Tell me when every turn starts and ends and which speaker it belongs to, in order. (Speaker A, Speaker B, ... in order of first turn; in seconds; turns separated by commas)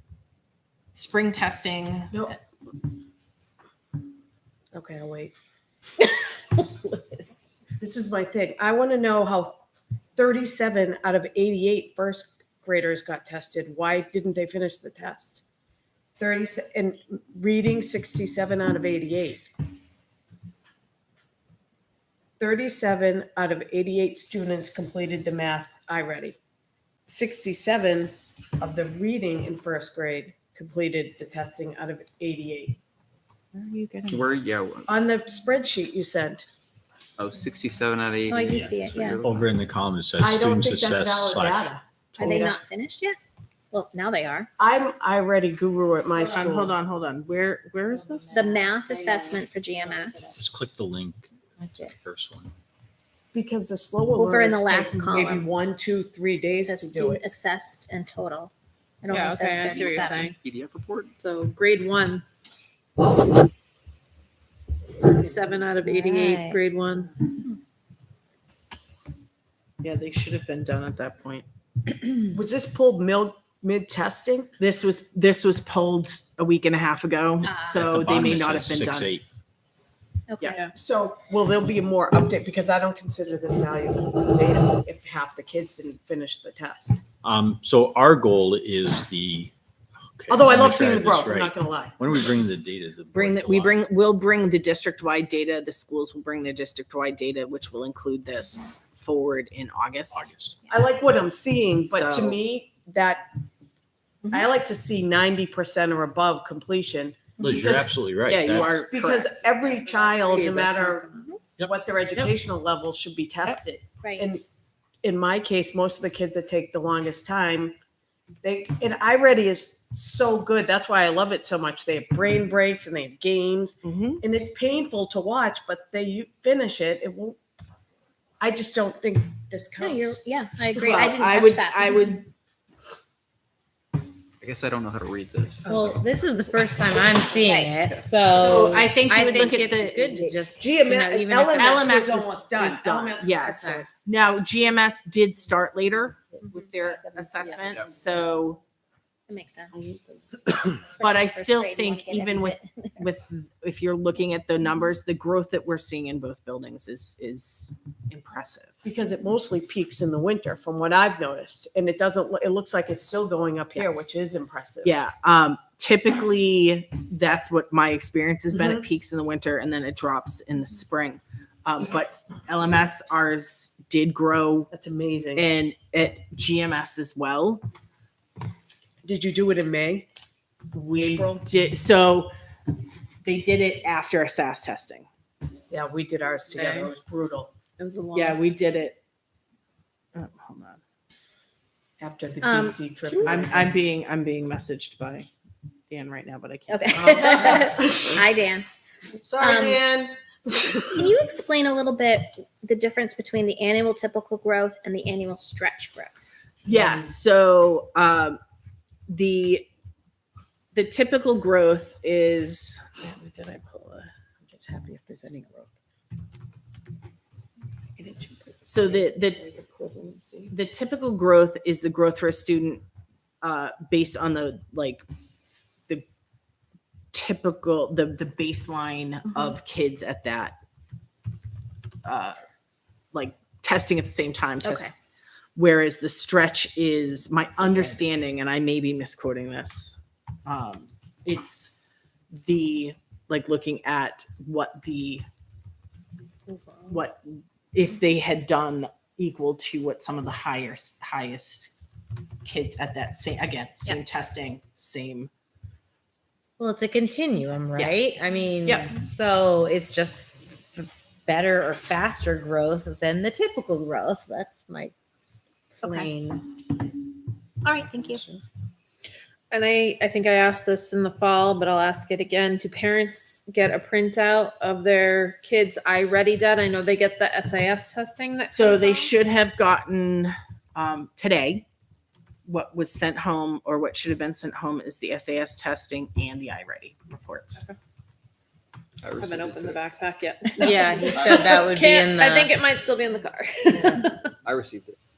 Speaker A: 0.9-2.3, Speaker B: 2.1-2.4, Speaker B: 4.7-5.3, Speaker B: 7.8-9.6, Speaker B: 10.2-15.4, Speaker B: 16.2-19.5, Speaker B: 22.4-26.4, Speaker B: 27.1-32.8, Speaker A: 33.5-34.4, Speaker C: 34.1-34.9, Speaker B: 34.9-36.5, Speaker C: 37.2-39.5, Speaker D: 38.3-39.2, Speaker E: 39.2-42.4, Speaker B: 40.2-42.6, Speaker D: 42.2-43.2, Speaker D: 43.7-44.5, Speaker B: 44.6-46.7, Speaker A: 46.2-48.5, Speaker F: 47.9-50.5, Speaker D: 48.3-50.4, Speaker E: 50.3-52.5, Speaker B: 53.3-57.3, Speaker D: 54.1-55.5, Speaker D: 56.6-58.5, Speaker D: 59.0-60.3, Speaker G: 59.1-60.4, Speaker C: 59.7-61.1, Speaker G: 61.2-62.2, Speaker G: 65.0-67.2, Speaker F: 65.7-66.6, Speaker A: 69.8-71.5, Speaker B: 72.3-74.5, Speaker A: 74.6-79.2, Speaker D: 77.4-77.9, Speaker E: 77.6-79.2, Speaker D: 80.3-80.6, Speaker B: 80.7-87.0, Speaker E: 87.2-89.5, Speaker E: 90.1-93.8, Speaker B: 90.3-92.0, Speaker A: 93.1-100.3, Speaker E: 100.1-100.6, Speaker B: 100.7-103.3, Speaker A: 101.9-102.4, Speaker B: 104.3-108.0, Speaker E: 107.4-108.9, Speaker A: 108.3-109.5, Speaker B: 108.7-111.1, Speaker G: 109.5-111.4, Speaker B: 111.7-114.4, Speaker D: 114.0-114.3, Speaker B: 115.0-117.8, Speaker B: 118.4-127.4, Speaker A: 123.8-124.2, Speaker B: 128.4-130.2, Speaker D: 129.8-132.2, Speaker B: 130.7-131.3, Speaker A: 131.2-132.3, Speaker C: 134.4-136.0, Speaker F: 135.7-143.9, Speaker D: 137.3-137.8, Speaker B: 138.4-139.5, Speaker A: 138.4-140.3, Speaker B: 140.6-143.9, Speaker A: 141.5-148.6, Speaker D: 147.1-147.8, Speaker D: 149.3-149.9, Speaker D: 150.6-153.1, Speaker A: 151.0-158.8, Speaker B: 158.8-165.0, Speaker A: 164.8-174.7, Speaker B: 168.5-168.8, Speaker B: 174.7-175.5, Speaker A: 175.3-177.7, Speaker B: 179.0-180.1, Speaker A: 180.7-182.3, Speaker B: 181.0-181.4, Speaker A: 183.2-185.1, Speaker B: 185.7-187.5, Speaker G: 186.5-186.9, Speaker G: 187.8-188.4, Speaker A: 188.1-189.0, Speaker A: 190.2-190.8, Speaker B: 192.0-193.8, Speaker D: 192.4-193.4, Speaker A: 193.2-195.3, Speaker A: 195.9-197.5, Speaker D: 196.7-198.7, Speaker B: 197.1-198.3, Speaker B: 199.2-201.2, Speaker D: 199.4-199.8, Speaker D: 201.0-206.3, Speaker B: 206.7-207.1, Speaker A: 206.7-208.4, Speaker A: 209.1-209.7, Speaker A: 210.7-214.1, Speaker B: 214.5-215.7, Speaker B: 218.0-220.5, Speaker A: 218.7-219.4, Speaker A: 220.5-222.8, Speaker A: 223.4-225.0, Speaker A: 227.1-230.6, Speaker A: 232.0-232.4, Speaker A: 233.1-234.9, Speaker D: 234.6-234.9, Speaker A: 235.6-241.8, Speaker A: 242.3-245.2, Speaker A: 246.9-251.8, Speaker A: 252.4-255.3, Speaker F: 256.6-264.9, Speaker A: 258.6-258.9, Speaker F: 265.8-266.6, Speaker D: 265.8-266.1, Speaker D: 267.6-268.2, Speaker F: 268.0-268.4, Speaker G: 269.5-279.2, Speaker A: 278.5-281.6, Speaker A: 282.5-287.7, Speaker C: 289.0-289.8, Speaker G: 289.2-294.3, Speaker F: 290.6-292.6, Speaker C: 294.4-295.0